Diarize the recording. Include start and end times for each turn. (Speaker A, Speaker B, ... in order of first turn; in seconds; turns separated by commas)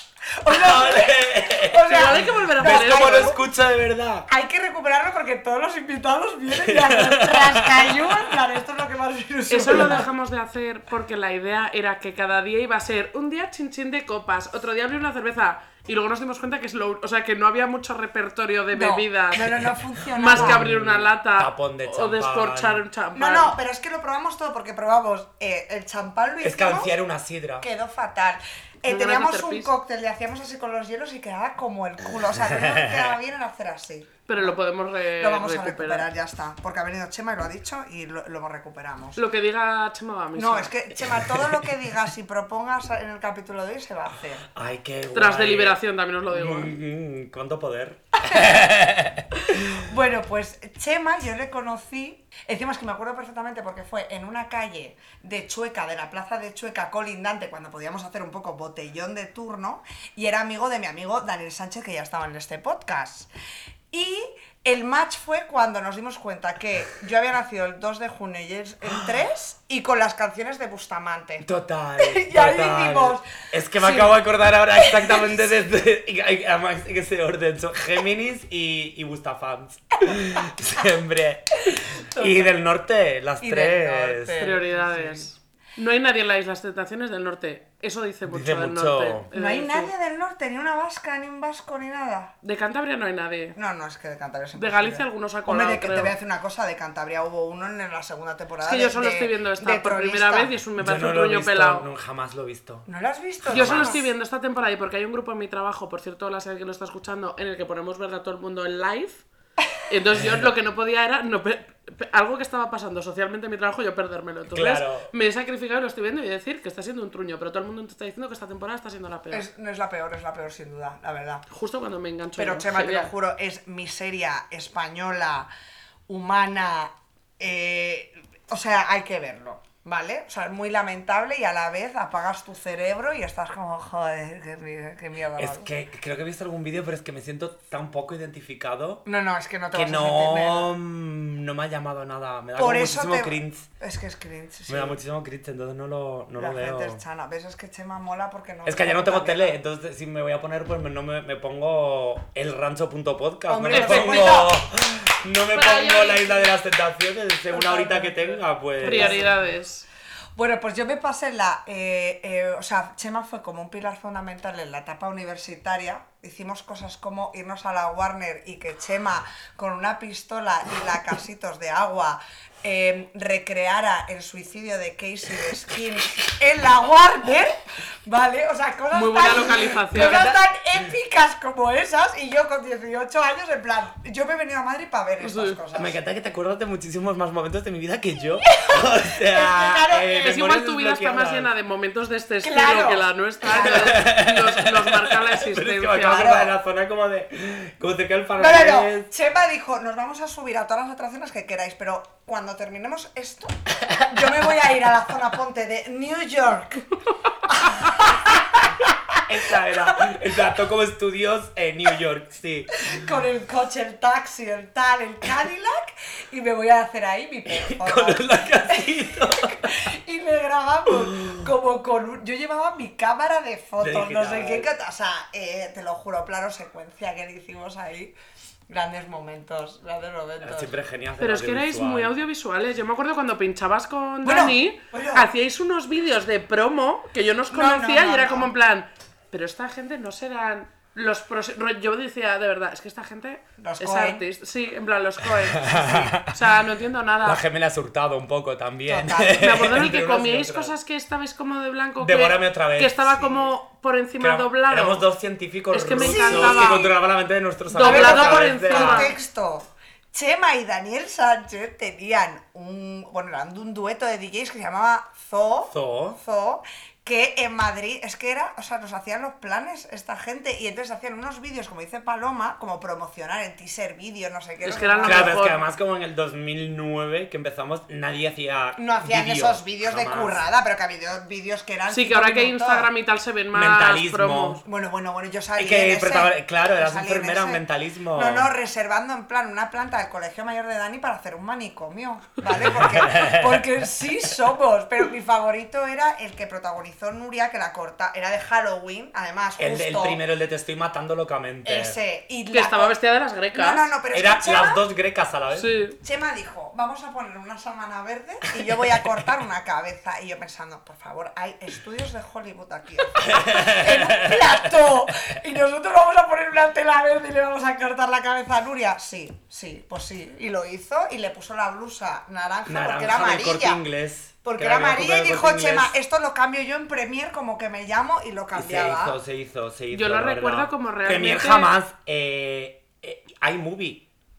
Speaker A: 0.4-3.4, Speaker B: 0.5-4.3, Speaker C: 1.9-3.3, Speaker A: 4.3-10.1, Speaker B: 6.5-8.2, Speaker C: 9.5-19.6, Speaker B: 9.8-10.0, Speaker A: 18.7-20.6, Speaker C: 20.1-23.6, Speaker B: 20.3-22.8, Speaker A: 23.1-26.9, Speaker B: 26.4-27.7, Speaker A: 27.6-34.5, Speaker C: 28.9-29.7, Speaker B: 32.5-33.1, Speaker C: 34.3-36.1, Speaker A: 35.2-39.2, Speaker C: 39.1-40.7, Speaker A: 40.3-44.5, Speaker B: 41.3-41.6, Speaker B: 44.5-45.8, Speaker C: 45.1-46.7, Speaker B: 46.3-49.8, Speaker A: 48.2-48.6, Speaker A: 49.5-63.3, Speaker A: 63.9-71.5, Speaker B: 71.4-84.5, Speaker A: 72.0-73.2, Speaker A: 73.8-74.2, Speaker A: 74.7-75.5, Speaker A: 82.1-82.6, Speaker A: 83.4-85.2, Speaker C: 84.4-89.9, Speaker B: 88.3-89.3, Speaker A: 89.3-92.3, Speaker C: 92.4-93.6, Speaker A: 93.5-100.5, Speaker C: 94.5-96.1, Speaker C: 98.6-101.8, Speaker B: 100.8-102.9, Speaker A: 102.8-104.0, Speaker B: 103.4-104.0, Speaker C: 103.5-109.2, Speaker C: 109.8-119.5, Speaker B: 114.5-115.1, Speaker A: 119.3-121.4, Speaker C: 121.5-123.1, Speaker A: 122.4-125.5, Speaker A: 126.1-135.7, Speaker B: 135.4-139.0, Speaker A: 139.0-140.7, Speaker B: 139.7-143.7, Speaker A: 142.6-145.0, Speaker B: 144.7-147.0, Speaker A: 146.3-149.6, Speaker B: 148.6-159.3, Speaker A: 153.5-154.6, Speaker C: 153.7-154.4, Speaker C: 155.5-156.5, Speaker A: 157.5-159.3, Speaker C: 158.8-159.8, Speaker A: 160.3-186.0, Speaker C: 178.9-180.3, Speaker C: 185.2-185.6, Speaker B: 185.7-191.5, Speaker A: 189.1-190.4, Speaker C: 190.2-196.4, Speaker A: 192.4-194.0, Speaker B: 193.5-199.1, Speaker A: 196.0-196.6, Speaker A: 198.4-208.4, Speaker B: 209.2-212.8, Speaker A: 212.8-228.1, Speaker B: 217.5-219.8, Speaker B: 223.8-224.7, Speaker A: 228.7-230.8, Speaker B: 230.4-232.1, Speaker C: 231.2-247.4, Speaker A: 234.2-235.3, Speaker A: 237.5-238.5, Speaker A: 243.6-244.2, Speaker B: 245.4-246.3, Speaker B: 247.2-250.7, Speaker A: 248.9-249.6, Speaker C: 249.4-255.0, Speaker B: 252.0-253.1, Speaker A: 253.1-253.5, Speaker B: 254.2-259.1, Speaker C: 255.7-256.9, Speaker A: 255.9-256.9, Speaker C: 257.7-259.1, Speaker A: 257.8-275.5, Speaker B: 265.7-266.2, Speaker C: 274.6-275.6, Speaker B: 275.0-280.4, Speaker A: 278.8-282.9, Speaker C: 281.9-284.6, Speaker B: 283.5-284.6, Speaker A: 284.6-300.2, Speaker B: 285.6-288.5, Speaker B: 292.5-293.6, Speaker B: 299.6-302.0, Speaker A: 301.6-303.0, Speaker C: 302.5-303.9, Speaker A: 303.5-304.8, Speaker B: 304.1-305.7, Speaker C: 305.5-306.0, Speaker A: 306.0-323.8, Speaker B: 313.2-314.5, Speaker B: 322.6-325.9, Speaker A: 324.4-329.2, Speaker B: 328.5-334.0, Speaker C: 329.9-331.7